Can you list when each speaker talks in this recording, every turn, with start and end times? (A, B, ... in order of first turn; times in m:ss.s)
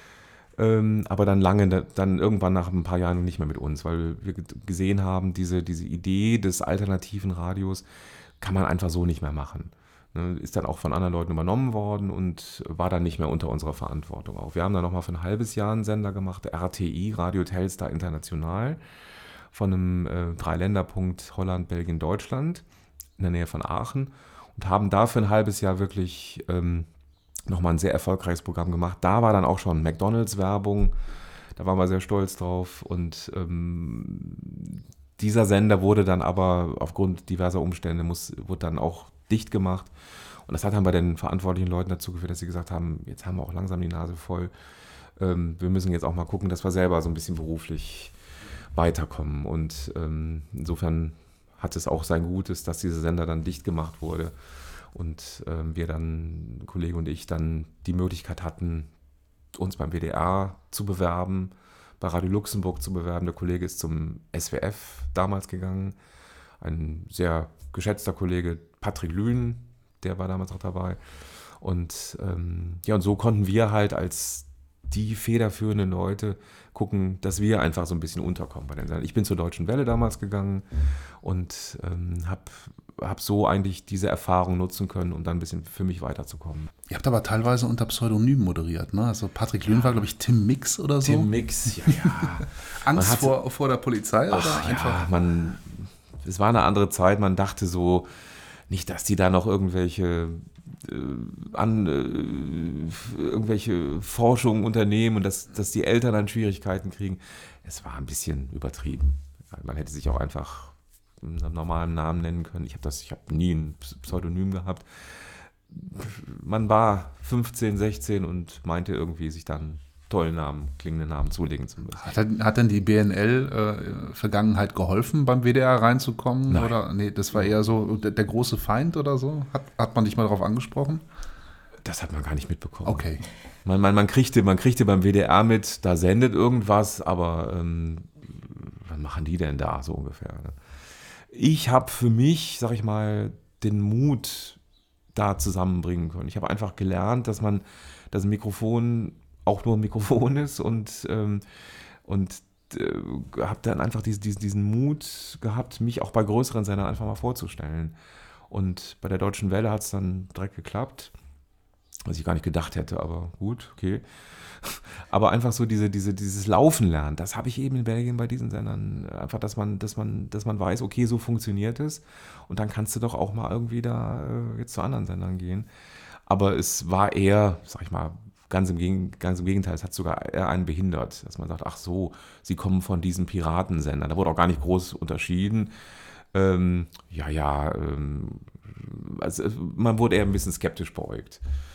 0:00.6-0:07.8 A
0:08.4-0:18.8 A
0:19.5-0:22.6 A
0:23.2-0:26.9 A
0:27.5-0:30.9 A
0:31.6-0:39.9 A
0:40.4-0:44.5 A
0:45.2-0:48.1 A
0:48.7-0:54.3 A
0:54.9-0:58.9 A
0:59.5-1:06.0 A
1:06.6-1:11.0 A
1:11.6-1:20.6 A
1:21.2-1:26.7 A
1:26.9-1:31.3 B
1:31.0-1:33.3 A
1:31.8-1:35.1 B
1:34.3-1:38.1 A
1:38.7-2:02.1 A
2:02.0-2:11.0 B
2:06.5-2:06.8 A
2:11.8-2:20.6 A
2:12.8-2:13.2 B
2:21.3-2:24.6 A
2:25.1-2:31.4 A
2:32.0-2:37.9 A
2:38.5-2:41.1 A
2:42.0-2:55.7 A
2:56.3-3:05.7 A
3:06.3-3:11.4 A